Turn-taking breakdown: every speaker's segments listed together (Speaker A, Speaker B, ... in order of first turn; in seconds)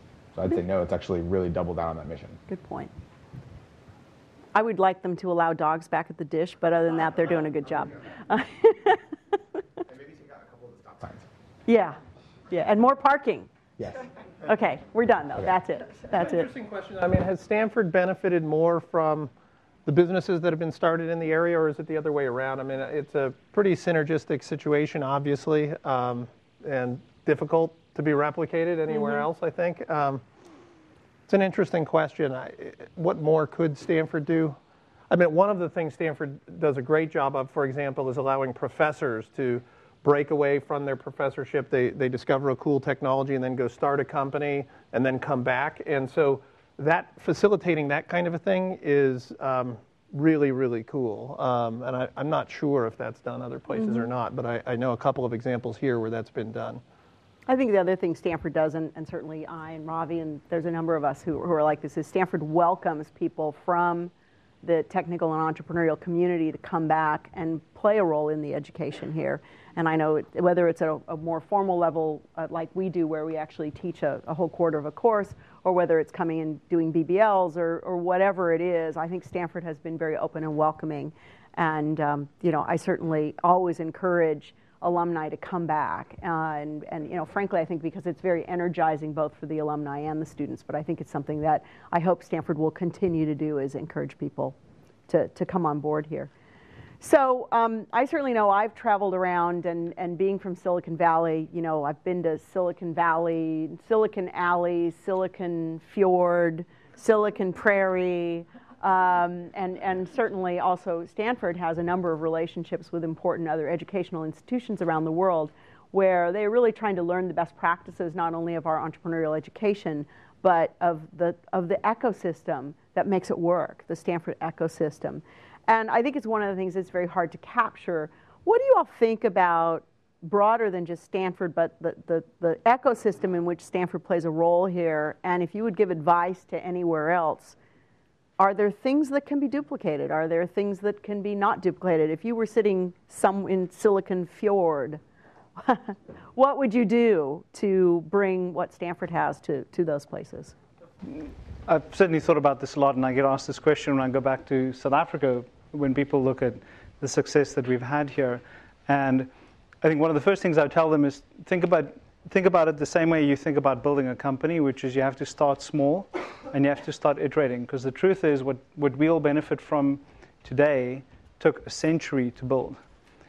Speaker A: 0.3-2.4, 9.9-11.2, 13.8-14.1
Speaker B: 2.5-2.9, 4.5-9.0, 11.7-12.0, 12.5-13.5, 14.4-16.5, 28.9-29.2, 53.8-54.0, 57.5-64.1, 64.6-94.5, 95.1-96.3, 97.0-137.6, 138.4-145.0, 145.6-150.5
Speaker C: 16.1-19.3, 19.9-30.2, 31.3-34.6, 35.1-56.8
Speaker D: 151.1-159.3, 159.8-172.8